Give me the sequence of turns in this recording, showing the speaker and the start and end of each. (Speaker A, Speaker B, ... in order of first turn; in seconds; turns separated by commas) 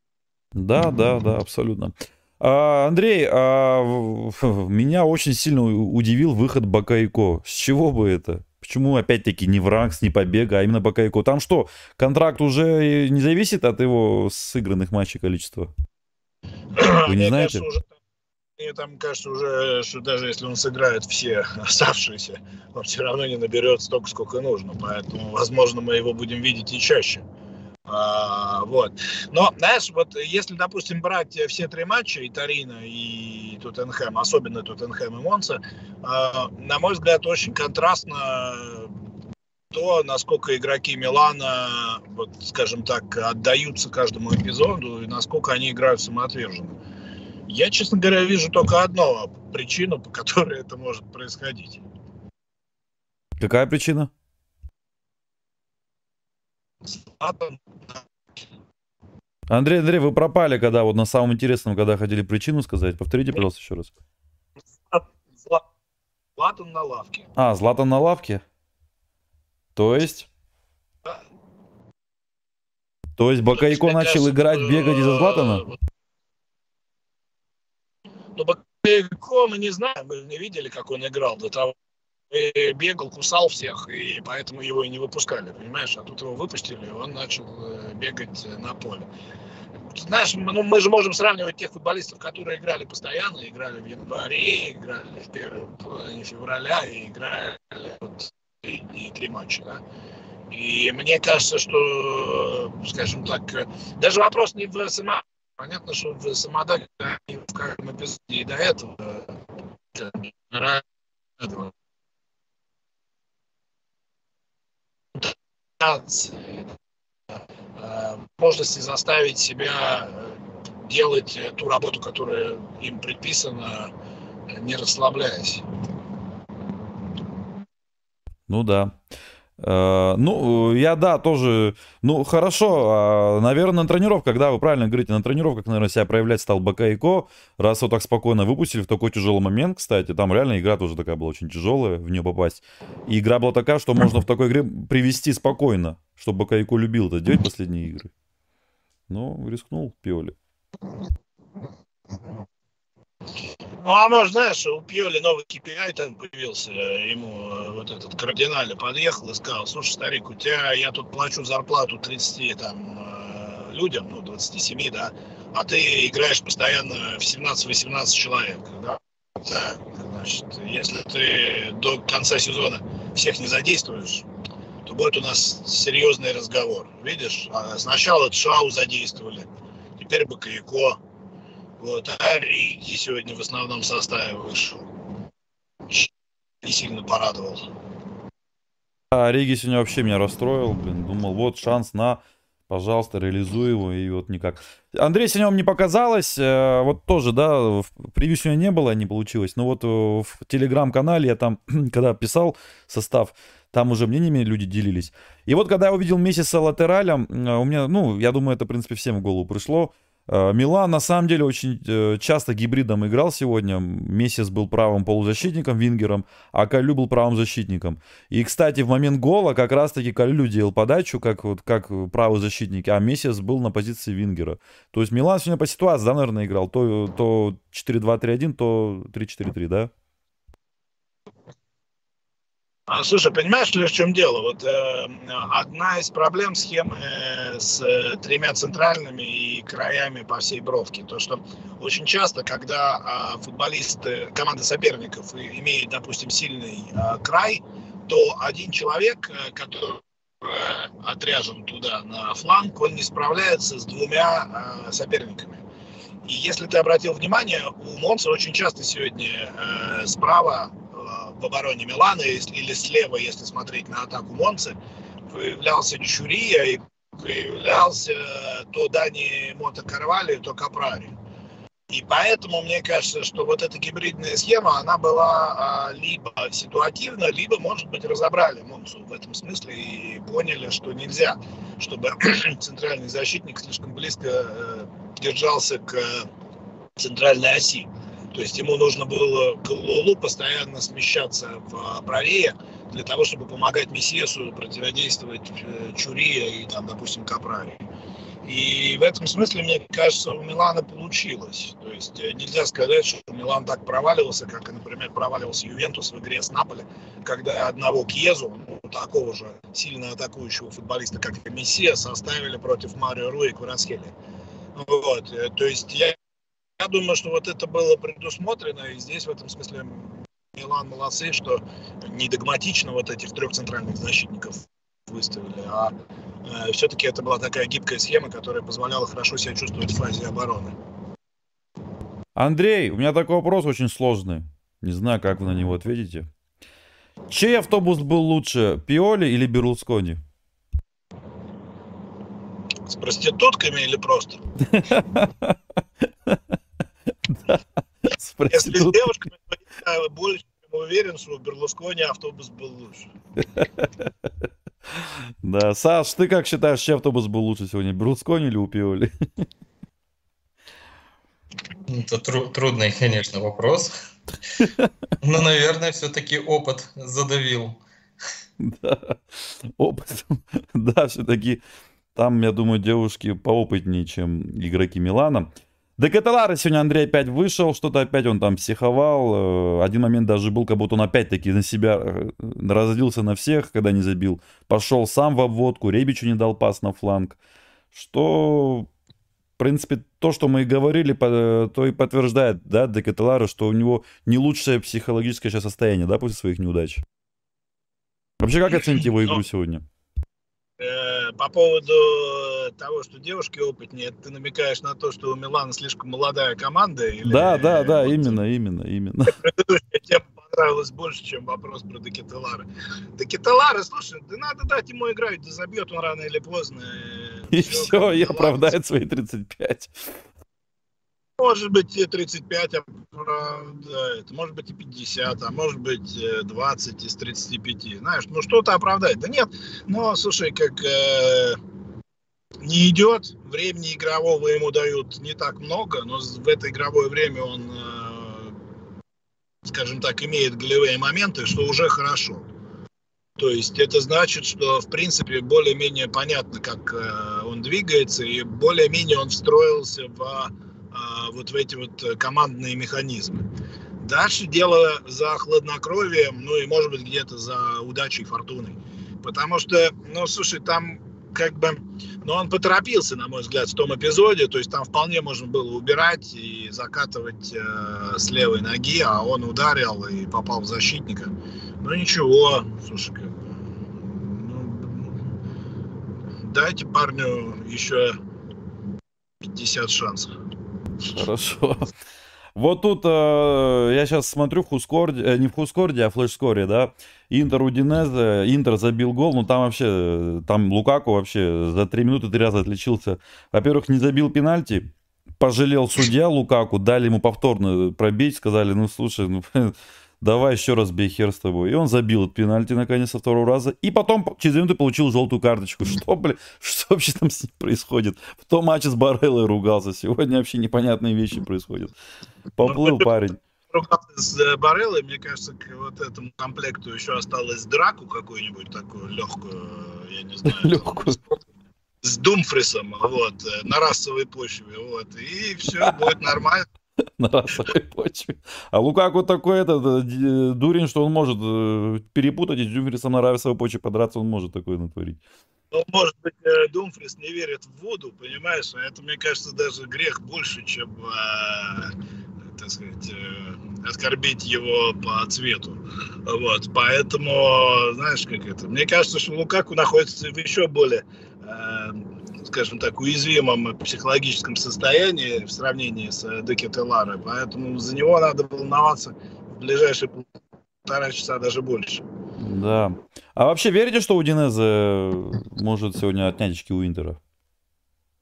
Speaker A: 0.6-15.7, Speaker B: 16.8-17.9, Speaker A: 17.1-17.6, Speaker B: 18.6-27.2, Speaker B: 27.9-38.9, Speaker B: 39.7-46.7, Speaker B: 47.5-51.8, Speaker A: 53.4-54.1, Speaker B: 56.9-58.0, Speaker A: 59.5-63.9, Speaker B: 64.9-65.6, Speaker B: 66.4-67.3, Speaker A: 67.4-68.4, Speaker A: 69.8-70.3, Speaker A: 73.2-75.7, Speaker B: 73.6-75.7, Speaker B: 78.3-81.7, Speaker B: 82.3-89.0, Speaker B: 89.9-99.8, Speaker B: 100.5-109.3, Speaker B: 109.9-110.8, Speaker B: 111.4-111.7, Speaker B: 115.2-116.4, Speaker B: 117.8-120.3, Speaker B: 120.8-123.9, Speaker B: 124.5-125.7, Speaker A: 128.5-128.9, Speaker A: 129.6-148.1, Speaker A: 149.1-150.3, Speaker B: 153.8-174.3, Speaker B: 174.8-179.5, Speaker B: 180.0-181.0, Speaker B: 181.8-184.9, Speaker B: 186.6-187.6, Speaker A: 189.1-229.9, Speaker B: 232.9-255.6, Speaker B: 256.2-264.8, Speaker B: 265.3-271.1, Speaker B: 271.9-286.3, Speaker B: 287.0-297.8, Speaker B: 298.4-314.1, Speaker B: 314.7-316.2, Speaker B: 316.8-325.9, Speaker B: 326.4-330.7, Speaker A: 332.4-336.3, Speaker A: 337.3-340.2, Speaker B: 342.8-344.5, Speaker A: 344.7-345.6, Speaker A: 347.3-349.1, Speaker B: 348.5-353.1, Speaker A: 353.5-354.1, Speaker A: 354.9-359.1, Speaker C: 361.9-363.9, Speaker A: 364.6-364.9, Speaker C: 365.2-367.8, Speaker A: 368.6-371.6, Speaker A: 372.1-387.4, Speaker A: 387.9-388.9, Speaker A: 389.6-397.0, Speaker A: 398.4-399.8, Speaker B: 400.8-408.4, Speaker A: 407.2-409.3, Speaker B: 409.3-418.7, Speaker A: 417.5-419.9, Speaker B: 421.4-431.6, Speaker B: 432.6-438.5, Speaker B: 439.6-442.4, Speaker B: 443.4-453.4, Speaker B: 454.0-475.3, Speaker B: 476.4-478.2, Speaker B: 479.4-480.3, Speaker A: 481.1-481.9, Speaker A: 482.6-494.9, Speaker A: 495.4-511.9, Speaker A: 512.6-513.4, Speaker B: 512.6-513.1, Speaker B: 513.7-521.2, Speaker A: 520.4-521.2, Speaker B: 522.0-526.6, Speaker A: 527.2-535.2, Speaker B: 535.7-542.0, Speaker B: 542.5-560.3, Speaker B: 560.8-562.0, Speaker A: 562.4-567.2